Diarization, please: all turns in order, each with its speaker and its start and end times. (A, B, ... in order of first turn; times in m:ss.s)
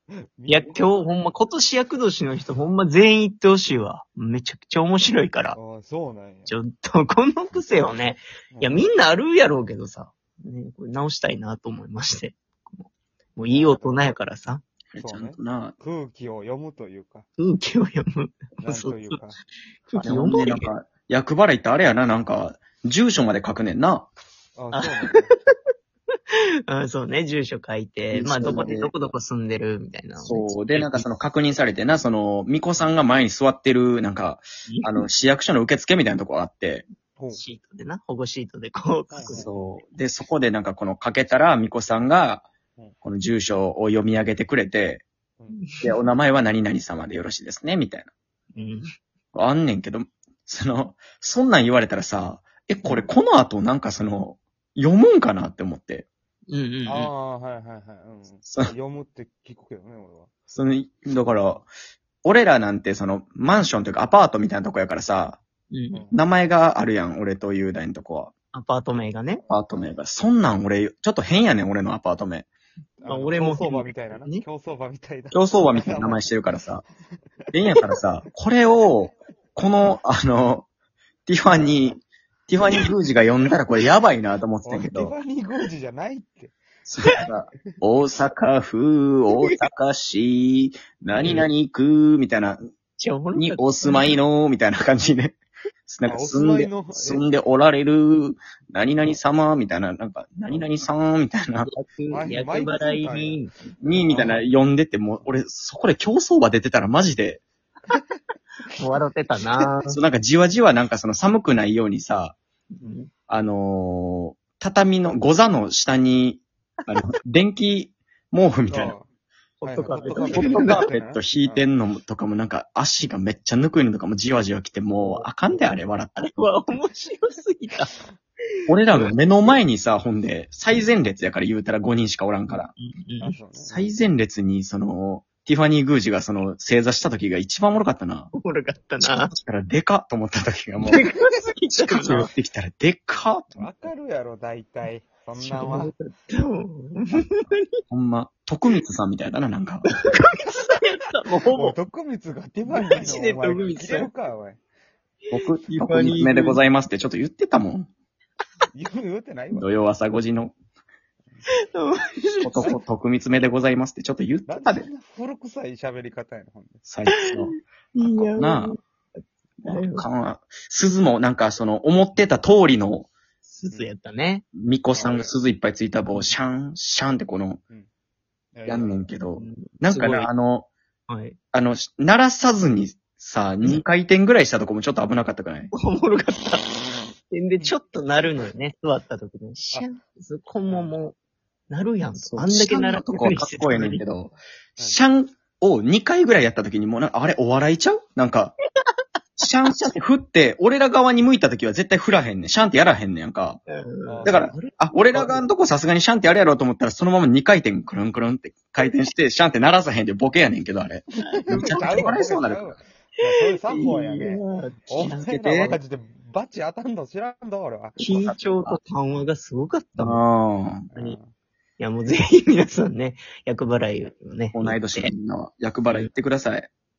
0:00.1-0:00.9 A
0:00.5-0:05.6 B
0:05.5-0:06.6 A
0:06.5-0:14.6 B
0:08.5-0:08.9 A
0:13.5-0:14.1 A
0:14.9-0:15.8 C
0:15.0-0:17.3 A
0:17.4-0:19.2 B
0:18.6-0:19.4 A
0:19.9-0:20.7 B
0:20.0-0:24.1 C
0:24.6-0:25.3 A
0:24.7-0:25.5 B
0:26.3-0:31.1 B
0:28.1-0:28.9 C
0:30.2-0:36.8 C
0:34.7-0:35.1 B
0:37.2-0:37.4 A
0:37.3-0:39.6 B
0:39.1-0:39.5 A
0:39.3-0:42.5 C
0:43.0-0:45.0 C
0:45.5-0:45.8 B
0:45.8-0:48.1 C
0:48.6-0:48.9 B
0:49.3-0:56.1 C
0:56.5-0:57.1 B
0:56.9-1:00.3 A
0:58.5-0:58.7 C
1:00.5-1:01.7 C
1:02.2-1:05.4 C
1:05.7-1:06.0 B
1:06.1-1:08.3 C
1:08.5-1:09.4 B
1:09.5-1:12.5 C
1:13.0-1:16.3 A
1:13.1-1:14.4 B
1:15.3-1:16.8 C
1:17.5-1:20.7 C
1:21.3-1:25.1 C
1:24.6-1:26.6 A
1:26.9-1:32.6 C
1:29.3-1:29.6 B
1:31.1-1:31.5 B
1:33.0-1:34.2 B
1:33.4-1:41.7 C
1:36.0-1:37.2 A
1:40.5-1:40.8 A
1:41.6-1:44.2 B
1:42.1-1:43.4 A
1:43.8-1:47.4 C
1:44.0-1:44.4 A
1:48.8-1:50.0 B
1:49.9-1:52.4 C
1:52.8-1:53.1 B
1:53.3-1:58.9 C
1:58.7-1:59.1 A
1:59.6-2:00.9 B
1:59.6-2:01.6 A
2:00.0-2:06.3 C
2:05.6-2:07.9 B
2:08.7-2:12.7 C
2:12.5-2:13.4 B
2:13.2-2:13.9 A
2:13.6-2:18.3 C
2:18.4-2:19.3 B
2:19.0-2:21.0 C
2:20.8-2:22.3 B
2:21.8-2:23.7 C
2:23.6-2:25.9 A
2:25.4-2:27.8 B
2:27.1-2:29.9 C
2:29.9-2:31.6 B
2:31.3-2:31.8 C
2:31.5-2:34.6 A
2:32.7-2:34.1 B
2:35.3-2:37.9 C
2:35.7-2:36.6 B
2:38.7-2:39.7 A
2:39.5-2:40.5 C
2:41.6-2:42.8 B
2:42.4-2:44.9 C
2:44.5-2:46.8 A
2:46.9-2:48.8 C
2:47.1-2:48.8 B
2:49.6-2:53.1 C
2:49.6-2:50.0 B
2:53.4-2:54.4 B
2:54.6-2:57.6 C
2:54.9-2:55.3 A
2:58.6-2:59.0 A
2:58.7-3:00.7 C
2:59.4-3:00.3 B
3:01.1-3:01.4 B
3:01.5-3:05.7 C
3:05.8-3:11.2 B
3:10.7-3:11.0 A
3:11.7-3:14.0 B
3:12.2-3:18.5 C
3:19.4-3:23.6 C
3:23.7-3:25.5 B
3:24.1-3:24.6 A
3:24.2-3:32.8 C
3:31.2-3:38.0 A
3:31.2-3:32.2 B
3:33.5-3:35.8 B
3:35.1-3:35.8 C
3:38.0-3:38.8 C
3:38.0-3:40.2 B
3:40.0-3:40.9 C
3:40.9-3:41.3 A
3:41.8-3:45.1 B
3:44.5-3:46.7 C
3:45.9-3:46.1 B